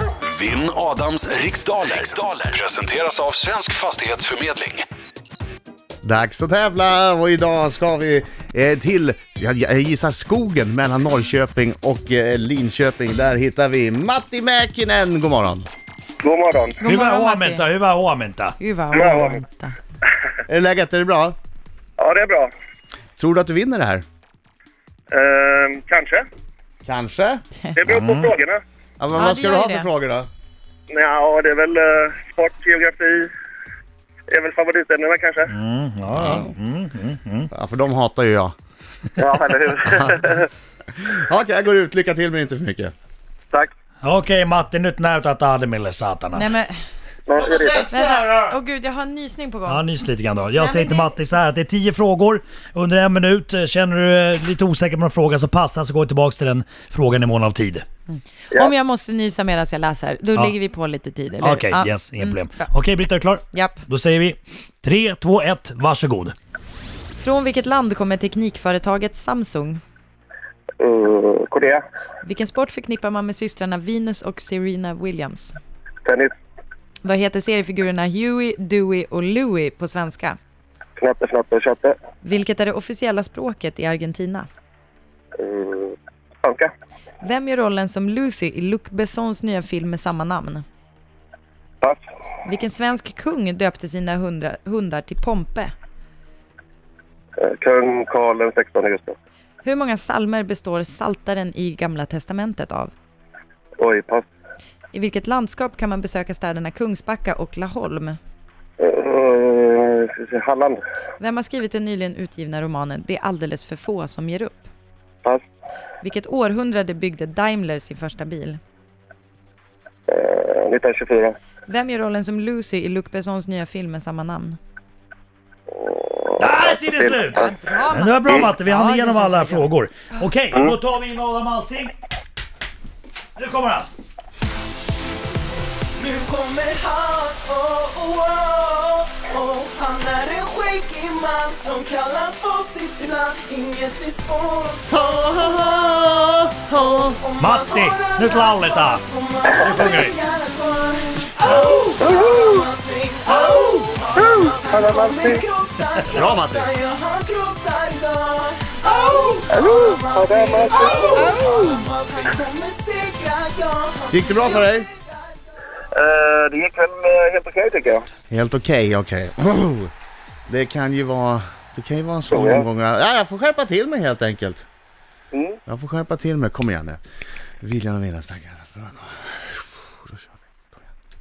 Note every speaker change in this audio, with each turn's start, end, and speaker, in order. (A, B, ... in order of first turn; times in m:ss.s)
0:00.3-0:04.8 A
0:06.0-0:15.7 B
0:16.2-0:16.8 C
0:16.8-0:17.7 D
0:16.8-0:18.6 E
0:18.6-0:19.7 D
0:18.9-0:19.4 C
0:20.5-0:21.3 B
0:22.0-0:22.5 C
0:23.2-0:24.0 B
0:25.1-0:26.2 C
0:26.8-0:27.4 B
0:27.8-0:28.6 C
0:27.9-0:28.3 E
0:29.0-0:30.3 B
0:29.1-0:29.9 D
0:30.9-0:33.3 C
0:34.3-0:35.5 C
0:35.5-0:37.5 E
0:36.1-0:36.5 B
0:37.5-0:38.5 B
0:39.2-0:40.5 C
0:41.0-0:42.9 B
0:44.0-0:46.5 E
0:46.3-0:46.8 D
0:47.2-0:47.9 C
0:47.4-0:48.6 B
0:47.9-0:49.9 D
0:49.7-0:57.8 E
0:50.5-0:51.1 D
0:58.1-1:02.7 D
1:01.4-1:06.3 E
1:03.5-1:03.8 D
1:07.2-1:09.8 D
1:10.8-1:11.8 C
1:12.2-1:15.5 D
1:16.0-1:16.3 C
1:17.0-1:20.4 D
1:21.0-1:21.9 C
1:22.2-1:24.5 D
1:25.4-1:26.7 C
1:27.2-1:30.6 D
1:32.4-1:35.7 D
1:37.4-1:39.1 C
1:39.6-1:42.9 D
1:43.8-1:44.2 C
1:44.9-1:48.2 D
1:48.8-1:50.8 C
1:51.2-1:54.7 D
1:56.0-1:58.6 D
2:00.1-2:01.4 C
2:01.7-2:04.6 D
2:05.7-2:07.5 C
2:06.4-2:11.9 E
2:07.3-2:09.7 D
2:13.4-2:13.9 E
2:16.0-2:25.6 F
2:24.9-2:27.2 B
2:26.7-2:45.2 F
2:27.4-2:29.0 E
2:29.6-2:30.2 E
2:32.0-2:32.6 C
2:34.2-2:35.4 C
2:36.1-2:36.7 B
2:39.5-2:41.4 C
2:44.1-2:44.9 B
2:45.9-2:48.1 C
2:48.3-2:49.9 B
2:50.5-2:54.6 B
2:52.3-2:52.7 C
2:55.3-2:55.6 C
2:55.7-2:57.0 B
2:57.6-3:00.8 B